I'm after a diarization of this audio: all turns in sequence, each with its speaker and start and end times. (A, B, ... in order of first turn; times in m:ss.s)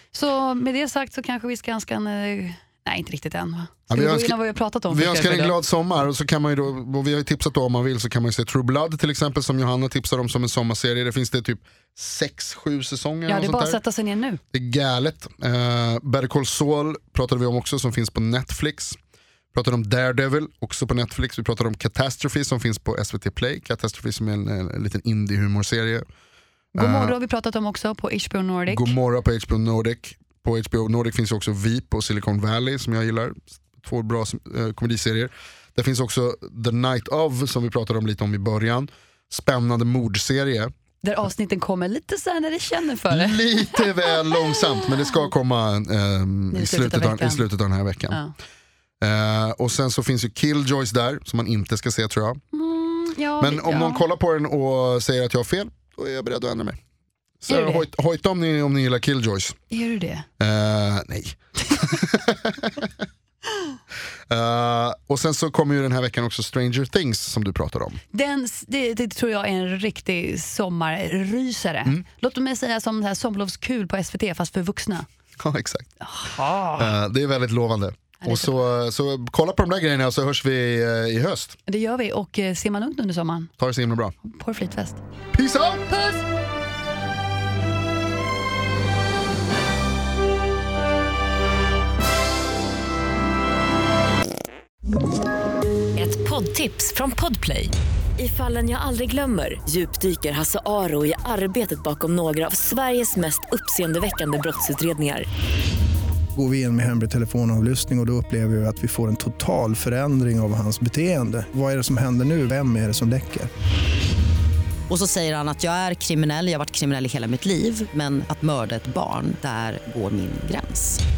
0:00.1-0:05.6 A
0:03.9-0:04.4 B
0:04.9-0:13.8 B
0:13.3-0:14.4 A
0:14.5-0:19.0 B
0:19.5-0:26.0 B
0:26.7-0:27.1 B
0:26.8-0:28.9 A
0:28.7-0:40.7 B
0:41.0-0:44.4 A
0:43.1-0:48.2 B
0:46.5-0:47.4 A
0:49.0-0:52.4 B
0:52.5-0:54.0 A
0:53.4-0:56.8 B
0:57.4-0:59.6 B
0:57.5-0:57.8 A
0:59.7-1:00.3 A
1:00.4-1:02.9 B
1:04.3-1:08.0 B
1:08.1-1:15.1 A
1:15.4-1:15.9 B
1:16.0-1:16.9 A
1:16.8-1:21.6 B
1:18.2-1:18.5 A
1:21.7-1:23.5 A
1:23.6-1:24.1 B
1:24.2-1:25.0 A
1:25.3-1:25.8 B
1:25.9-1:26.2 A
1:36.0-1:45.2 C
1:46.3-1:53.5 D
1:54.9-2:01.0 E